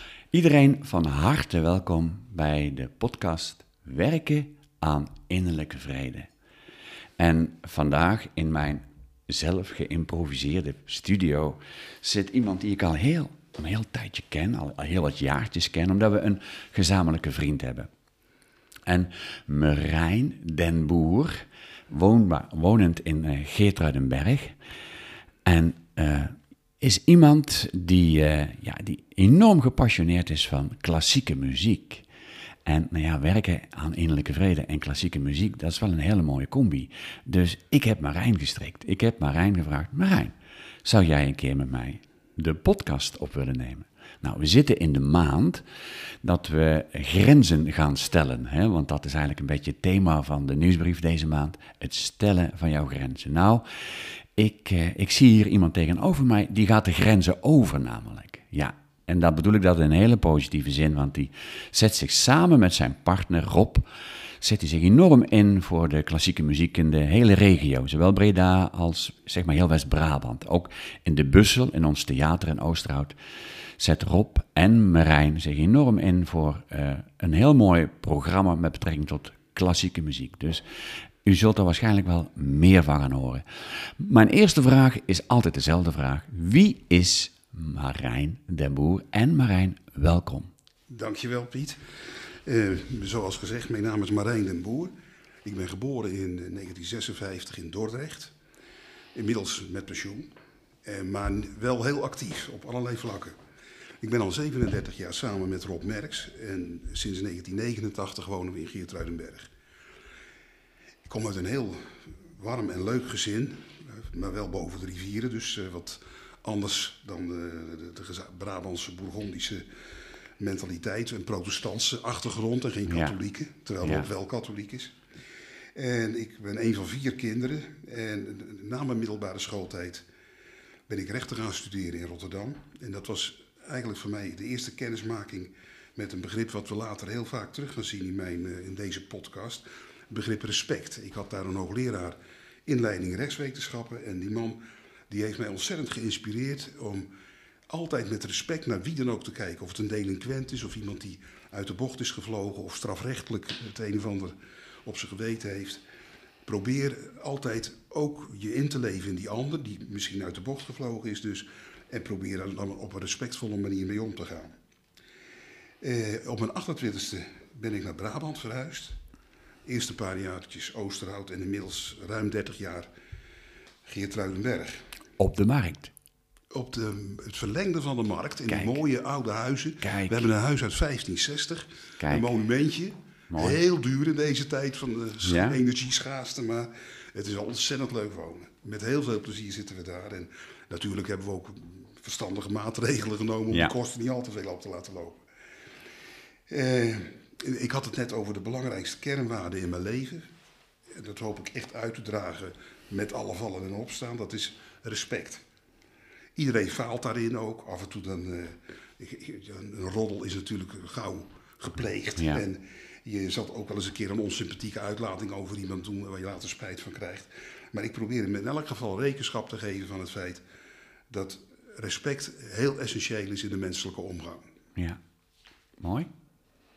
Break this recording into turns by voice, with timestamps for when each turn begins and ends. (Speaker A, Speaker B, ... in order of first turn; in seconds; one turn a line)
Speaker A: 0.3-6.3
Speaker A: 7.2-17.9
Speaker A: 18.9-24.6
Speaker A: 25.4-32.1
Speaker A: 32.7-45.6
Speaker A: 46.2-63.9
Speaker A: 64.4-73.2
Speaker A: 73.8-80.6
Speaker A: 81.2-90.5
Speaker B: 90.9-91.8
Speaker B: 92.4-94.9
Speaker B: 95.4-98.3
Speaker B: 99.1-100.3
Speaker B: 100.8-103.4
Speaker B: 104.0-109.5
Speaker B: 111.1-119.6
Speaker B: 120.4-125.0
Speaker A: 122.9-123.2
Speaker A: 123.8-124.1
Speaker B: 125.8-130.1
Speaker B: 130.9-147.1
Speaker B: 147.7-155.8
Speaker B: 156.4-164.5
Speaker B: 165.8-169.0
Speaker B: 169.7-172.9
Speaker B: 173.9-174.8
Speaker A: 175.2-175.9
Speaker B: 176.5-195.2
Speaker A: 178.5-178.8
Speaker A: 179.8-180.3
Speaker A: 182.0-182.3
Speaker A: 183.3-183.6
Speaker A: 185.2-185.6
Speaker B: 196.5-200.3
Speaker B: 200.9-205.4
Speaker B: 206.4-220.4
Speaker A: 212.2-212.4
Speaker B: 221.1-224.4
Speaker A: 225.8-226.1